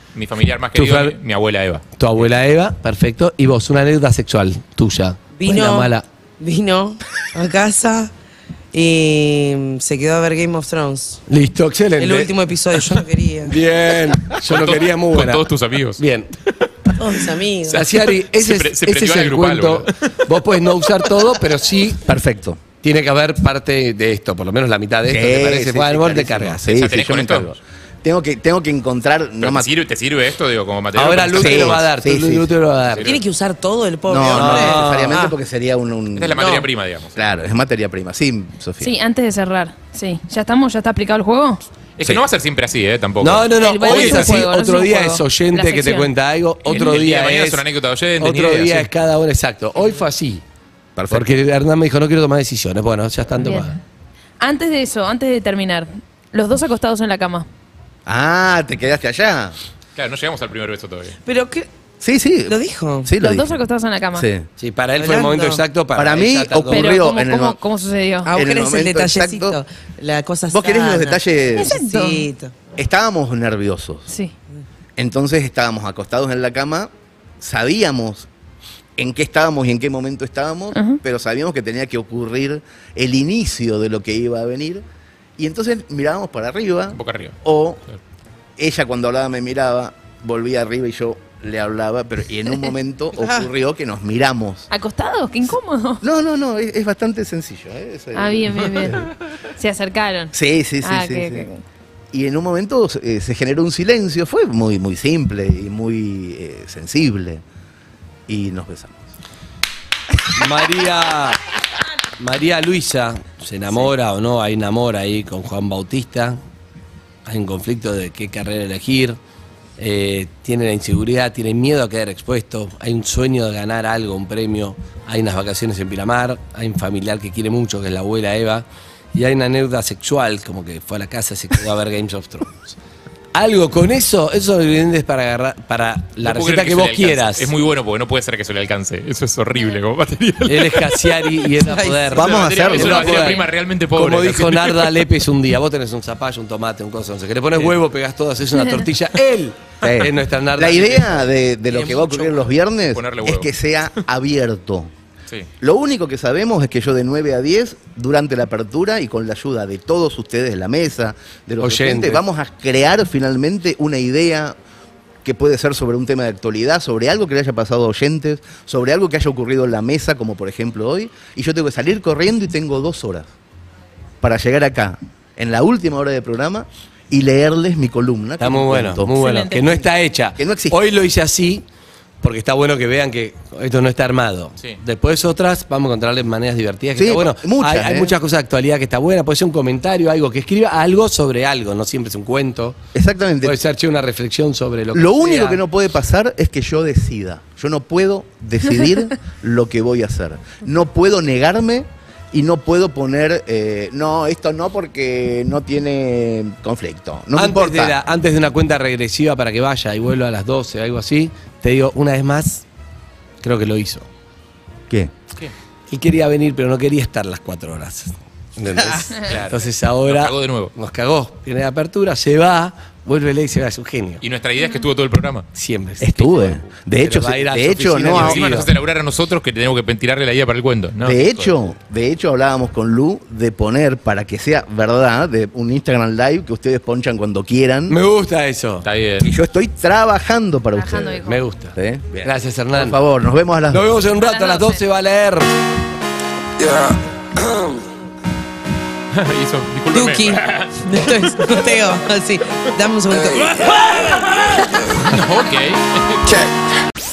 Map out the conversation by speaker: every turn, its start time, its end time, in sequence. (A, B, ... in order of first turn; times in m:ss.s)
0:00.2-0:01.8 A
0:00.8-0:01.2 B
0:02.0-0:06.0 B
0:05.3-0:08.1 C
0:08.7-0:11.2 C
0:11.3-0:12.3 B
0:12.0-0:13.6 C
0:13.5-0:16.3 B
0:14.3-0:16.0 A
0:17.0-0:17.8 C
0:17.7-0:22.1 B
0:18.2-0:20.2 A
0:22.0-0:22.6 D
0:22.8-0:26.6 B
0:25.1-0:29.7 D
0:26.7-0:27.5 A
0:29.4-0:31.8 A
0:31.0-0:33.1 B
0:31.3-0:32.5 D
0:32.8-0:33.2 A
0:33.0-0:35.3 C
0:34.1-0:36.6 D
0:34.3-0:35.2 B
0:36.2-0:37.3 A
0:36.4-0:36.6 C
0:37.2-0:38.9 D
0:38.8-0:41.6 E
0:42.0-0:44.4 A
0:43.2-0:47.6 B
0:43.5-0:46.1 E
0:46.6-0:48.9 A
0:48.2-0:50.4 B
0:51.0-0:51.4 D
0:51.1-0:53.8 B
0:53.4-0:53.7 E
0:54.4-0:57.5 E
0:58.1-0:59.6 D
1:00.0-1:01.2 A
1:01.3-1:01.7 C
1:02.0-1:03.6 D
1:02.5-1:03.1 C
1:03.2-1:04.3 E
1:04.1-1:04.5 D
1:04.6-1:06.9 B
1:05.0-1:05.6 C
1:06.0-1:07.6 D
1:06.7-1:08.3 E
1:08.2-1:12.5 C
1:08.3-1:09.6 D
1:10.5-1:11.8 D
1:11.6-1:12.3 E
1:12.8-1:14.1 D
1:14.1-1:14.3 E
1:15.0-1:18.3 D
1:19.0-1:24.8 D
1:20.7-1:21.0 E
1:25.4-1:27.8 D
1:27.0-1:27.4 A
1:28.6-1:34.7 D
1:34.7-1:36.0 E
1:36.0-1:39.1 D
1:38.1-1:41.6 E
1:40.3-1:41.5 D
1:42.1-1:47.4 D
1:48.3-1:49.0 D
1:50.3-1:51.4 B
1:52.2-1:56.4 B
1:57.3-1:59.2 B
1:59.8-2:12.8 B
2:13.3-2:17.5 B
2:16.2-2:21.3 A
2:20.5-2:31.2 B
2:21.6-2:22.2 C
2:22.1-2:23.4 D
2:22.2-2:25.0 A
2:28.5-2:28.9 E
2:29.8-2:34.9 D
2:31.7-2:32.5 C
2:32.9-2:33.5 A
2:35.6-2:44.6 D
2:41.6-2:42.2 B
2:45.2-2:53.3 D
2:54.2-2:59.1 D
2:58.4-3:01.6 B
2:59.1-2:59.8 E
3:00.4-3:00.8 D
3:02.2-3:12.8 B
3:07.0-3:08.2 D
3:12.9-3:13.6 D
3:13.4-3:15.6 B
3:14.9-3:28.0 D
3:27.4-3:32.6 B
3:33.4-3:34.1 B
3:35.9-3:44.2 B
3:39.2-3:40.7 A
3:44.2-3:45.5 A
3:45.5-3:48.7 B
3:46.0-3:48.6 D
3:48.1-3:51.6 A
3:51.0-3:58.0 D
3:57.9-3:58.8 B
3:58.8-3:59.3 A
3:59.2-4:01.2 D
4:00.8-4:01.4 E
4:01.2-4:03.0 B
4:01.8-4:03.9 D
4:03.7-4:05.5 B
4:04.1-4:04.8 E
4:09.1-4:10.8 A
4:09.9-4:14.1 C
4:15.0-4:16.4 A